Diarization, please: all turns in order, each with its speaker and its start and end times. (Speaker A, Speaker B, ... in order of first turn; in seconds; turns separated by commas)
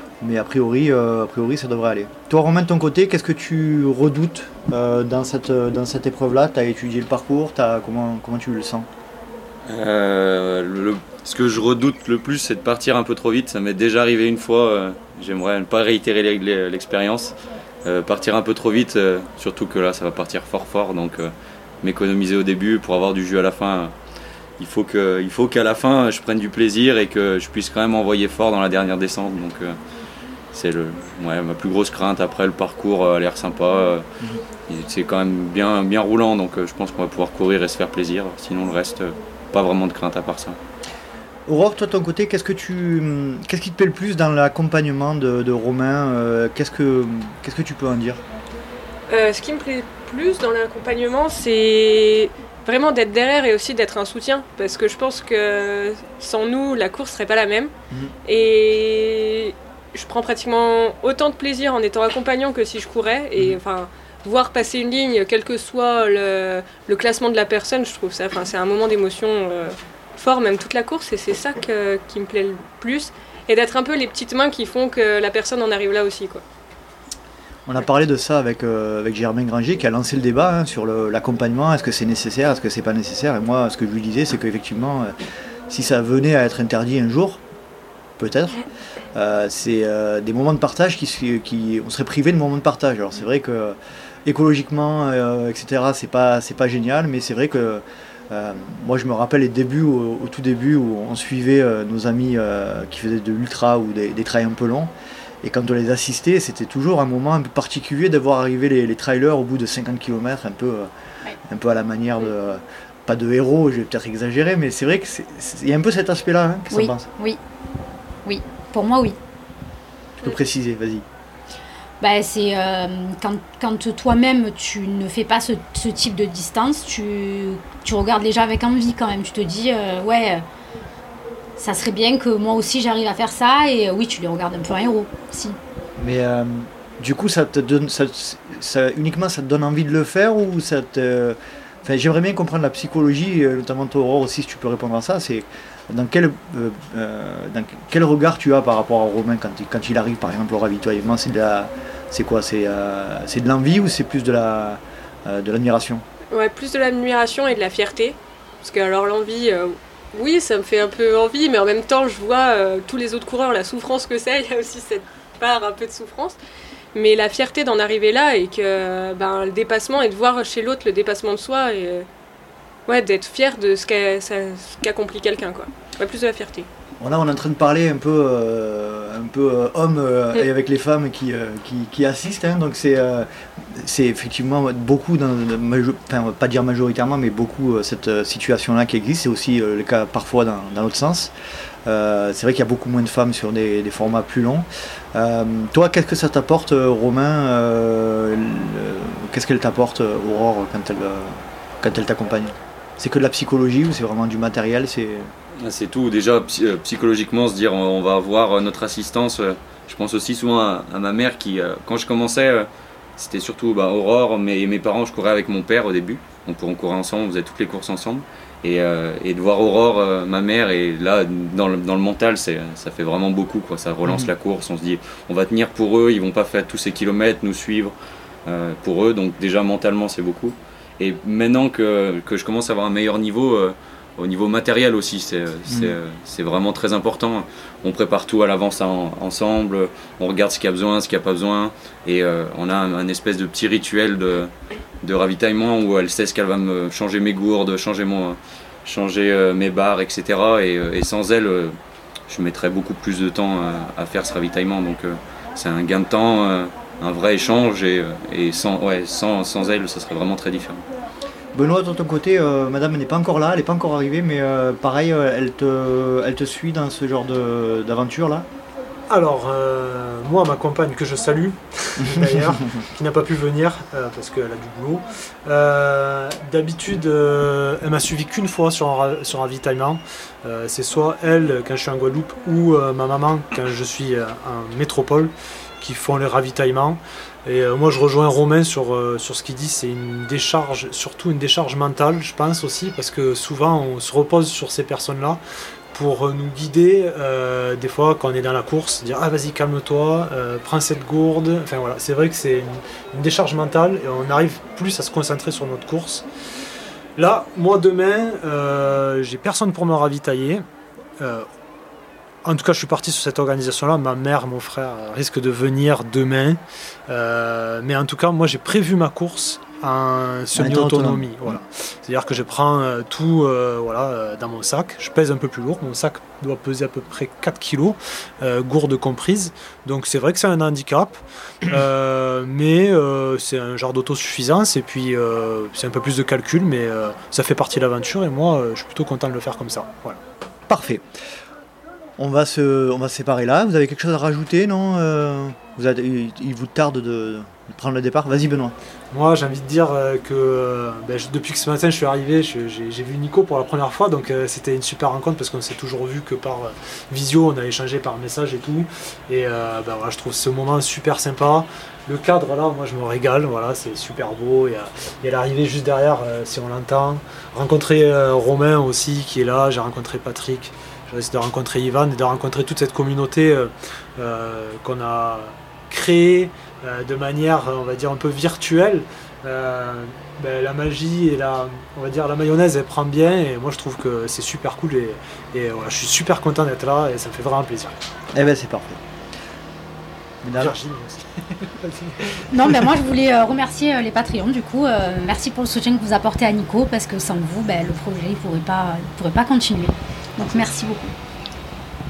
Speaker A: 0.2-8.9, Speaker B: 9.7-23.9, Speaker B: 24.6-29.8, Speaker B: 30.5-40.6, Speaker A: 41.5-48.2, Speaker C: 49.1-57.7, Speaker C: 58.2-76.4, Speaker A: 77.7-85.2, Speaker A: 85.7-87.4, Speaker A: 88.2-88.6, Speaker A: 89.1-104.9, Speaker A: 105.4-110.9, Speaker A: 111.4-117.1, Speaker D: 116.7-117.4, Speaker D: 118.2-119.2, Speaker A: 120.2-121.1, Speaker D: 122.0-130.4, Speaker D: 131.6-135.6, Speaker A: 136.0-156.0, Speaker C: 156.3-166.4, Speaker C: 166.9-172.1, Speaker C: 172.9-176.7, Speaker A: 177.0-191.3, Speaker A: 191.9-205.3, Speaker B: 205.6-227.9, Speaker A: 224.1-224.3, Speaker B: 228.4-244.5, Speaker A: 235.7-235.9, Speaker B: 245.0-251.8, Speaker B: 252.3-260.9, Speaker A: 261.5-268.5, Speaker E: 269.1-295.4, Speaker A: 272.0-272.7, Speaker E: 295.9-306.2, Speaker E: 307.2-310.6, Speaker E: 311.2-311.5, Speaker E: 312.4-340.2, Speaker A: 320.6-321.6, Speaker A: 340.7-341.0, Speaker A: 342.2-348.8, Speaker E: 349.1-388.0, Speaker A: 388.3-389.0, Speaker A: 390.4-390.8, Speaker E: 390.6-392.2, Speaker D: 392.5-401.1, Speaker A: 400.4-400.7